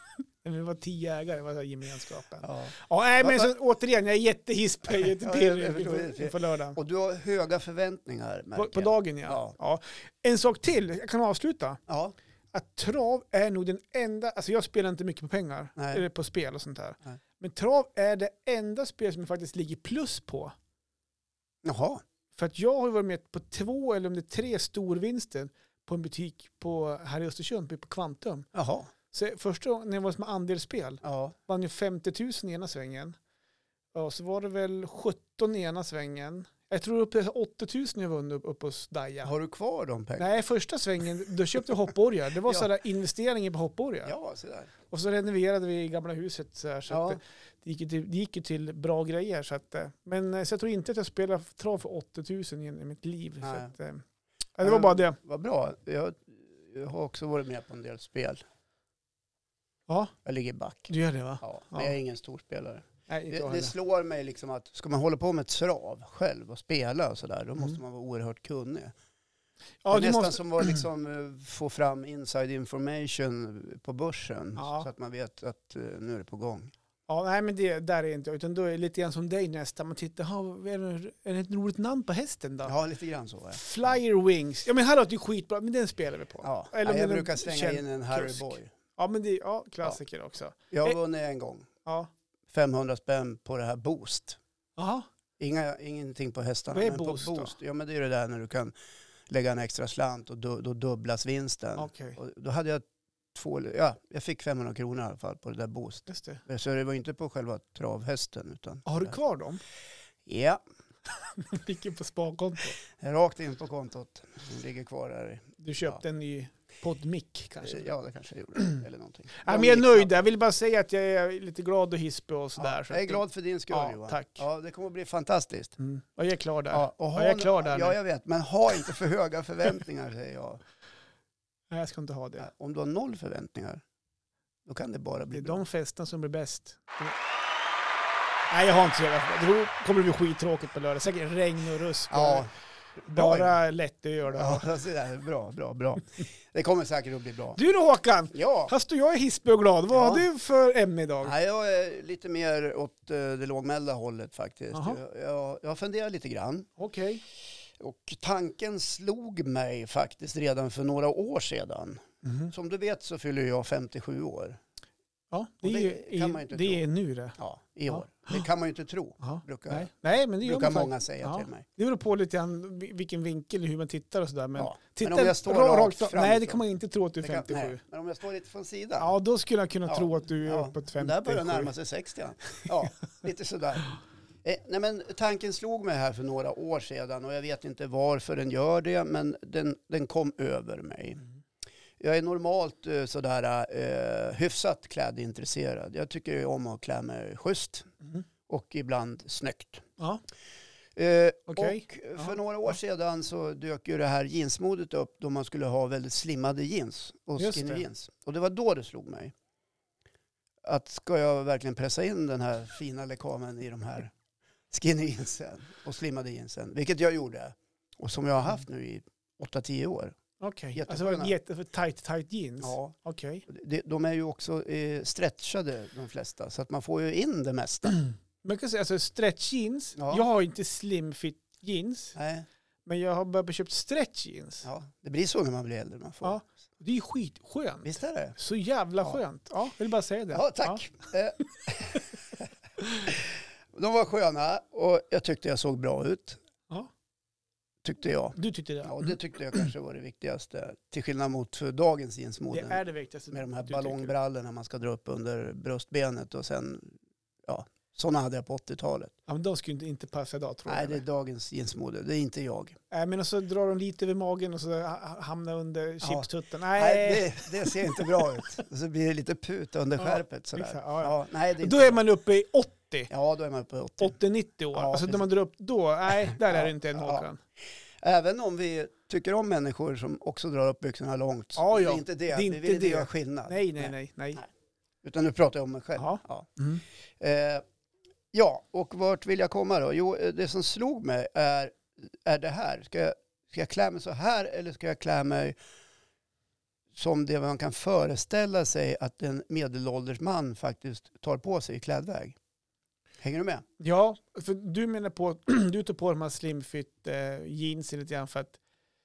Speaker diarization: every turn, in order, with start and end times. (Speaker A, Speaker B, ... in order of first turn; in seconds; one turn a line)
Speaker A: 0.4-6.8
Speaker B: 2.4-3.5
Speaker B: 4.9-9.6
Speaker A: 8.5-11.8
Speaker B: 11.9-12.1
Speaker A: 12.5-20.5
Speaker B: 15.8-16.0
Speaker B: 21.6-22.0
Speaker A: 22.4-28.5
Speaker B: 28.5-28.9
Speaker A: 29.1-33.1
Speaker B: 31.0-31.3
Speaker A: 33.9-39.3
Speaker B: 39.2-40.4
Speaker A: 40.2-44.1
Speaker B: 44.0-44.7
Speaker A: 44.9-54.0
Speaker B: 46.9-47.2
Speaker B: 53.4-53.7
Speaker A: 54.6-55.2
Speaker B: 54.6-58.4
Speaker A: 59.9-60.1
Speaker B: 60.2-68.9
Speaker A: 60.9-62.0
Speaker A: 63.1-63.7
Speaker A: 69.8-70.8
Speaker B: 69.9-76.7
Speaker A: 74.5-74.9
Speaker A: 77.1-82.7
Speaker B: 82.6-83.9
Speaker A: 83.5-91.0
Speaker B: 86.4-88.7
Speaker B: 90.7-91.7
Speaker A: 91.8-92.1
Speaker B: 92.5-94.4
Speaker A: 94.8-95.1
Speaker B: 95.4-98.7
Speaker A: 96.7-97.5
Speaker B: 99.3-109.2
Speaker A: 101.8-102.2
Speaker A: 106.1-106.4
Speaker A: 108.8-109.6
Speaker B: 110.2-110.6
Speaker A: 111.2-112.8
Speaker B: 113.0-116.0
Speaker A: 115.6-117.9
Speaker B: 117.6-120.2
Speaker A: 119.4-124.4
Speaker B: 122.6-125.8
Speaker A: 125.8-128.0
Speaker B: 126.7-130.6
Speaker A: 131.7-132.5
Speaker B: 132.4-133.8
Speaker B: 134.7-135.6
Speaker A: 135.3-137.1
Speaker A: 138.5-142.5
Speaker B: 142.1-142.5
Speaker B: 143.0-143.6
Speaker A: 143.0-144.7
Speaker B: 144.3-147.6
Speaker A: 147.6-151.3
Speaker B: 148.3-148.7
Speaker B: 149.9-150.2
Speaker B: 151.2-156.7
Speaker A: 154.7-155.0
Speaker A: 156.8-157.2
Speaker B: 157.8-164.6
Speaker A: 162.2-162.5
Speaker A: 165.3-167.4
Speaker B: 165.6-166.8
Speaker B: 167.4-171.6
Speaker A: 167.9-168.4
Speaker A: 169.2-177.8
Speaker B: 174.6-176.6
Speaker B: 177.2-179.1
Speaker A: 179.0-181.7
Speaker B: 179.9-183.9
Speaker B: 184.4-191.2
Speaker B: 192.0-197.9
Speaker B: 198.5-199.8
Speaker B: 200.9-209.3
Speaker A: 201.5-202.3
Speaker A: 207.4-207.8
Speaker B: 210.6-214.1
Speaker B: 214.7-220.2
Speaker A: 220.4-223.4
Speaker B: 220.7-221.3
Speaker B: 222.6-222.9
Speaker B: 223.5-227.9
Speaker A: 228.4-232.2
Speaker B: 229.9-230.3
Speaker B: 232.2-232.4
Speaker A: 232.8-234.7
Speaker B: 234.6-236.4
Speaker A: 236.2-240.8
Speaker B: 237.8-238.3
Speaker B: 240.3-242.5
Speaker A: 242.8-243.1
Speaker B: 243.1-246.4
Speaker B: 247.8-259.1
Speaker A: 248.3-249.1
Speaker A: 252.5-254.1
Speaker A: 259.3-261.0
Speaker B: 260.6-262.8
Speaker A: 262.9-268.4
Speaker B: 266.0-272.0
Speaker A: 270.0-273.1
Speaker B: 273.1-274.1
Speaker A: 274.0-277.4
Speaker B: 274.7-275.3
Speaker B: 276.3-277.3
Speaker B: 278.0-284.4
Speaker A: 281.6-284.4
Speaker B: 285.0-286.5
Speaker A: 286.0-286.8
Speaker B: 287.2-287.6
Speaker B: 288.3-295.6
Speaker B: 296.9-302.4
Speaker B: 303.2-303.6
Speaker A: 303.8-308.6